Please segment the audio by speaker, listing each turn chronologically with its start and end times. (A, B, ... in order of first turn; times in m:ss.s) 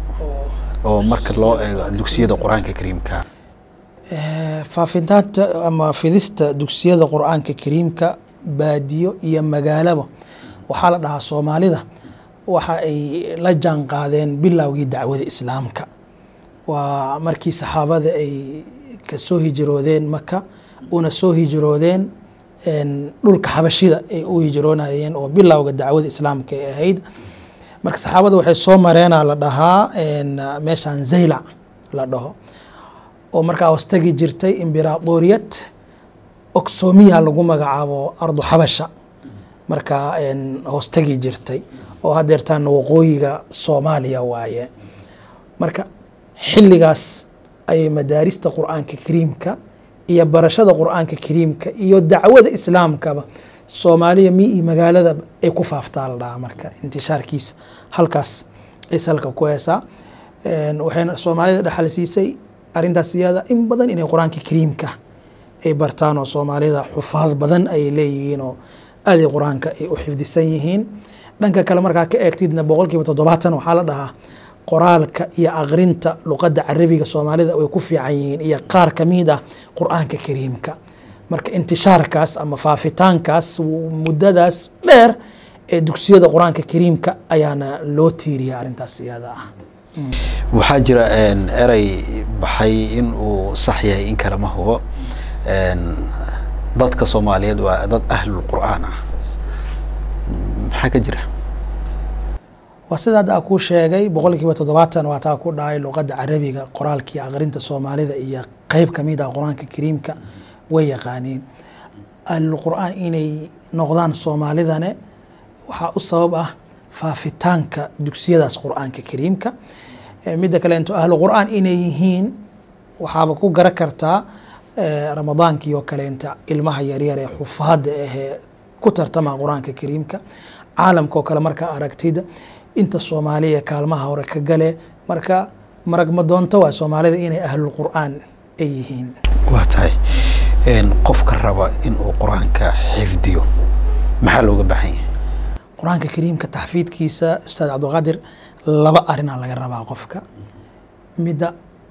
0:00.2-0:00.7 A
0:00.8-0:03.2 B
0:01.4-0:01.9 A
0:04.1-0:10.1 A
0:10.7-0:11.8 A
0:12.5-0:15.9 A
0:16.7-0:22.1 A
0:22.6-0:27.0 A
0:27.8-0:32.3 A
0:33.3-0:35.7 A
0:36.5-0:38.9 A
0:39.7-0:44.7 A
0:45.6-0:45.9 A
0:46.4-0:49.6 A
0:50.1-0:59.8 A
1:00.4-1:04.9 A
1:05.6-1:14.1 A
1:14.7-1:20.8 A
1:21.3-1:25.2 A
1:25.7-1:29.4 A
1:30.5-1:34.8 B
1:35.4-1:36.1 B
1:36.8-1:38.9 B
1:40.3-1:41.2 B
1:42.9-1:50.2 A
1:50.7-1:51.4 A
1:52.3-1:54.9 A
1:55.7-1:59.5 A
2:00.3-2:02.4 A
2:03.0-2:04.2 A
2:04.8-2:10.2 A
2:10.8-2:12.2 A
2:12.8-2:19.1 A
2:19.5-2:20.0 B
2:20.6-2:23.4 B
2:24.2-2:25.0 B
2:25.8-2:30.2 A
2:31.2-2:31.5 A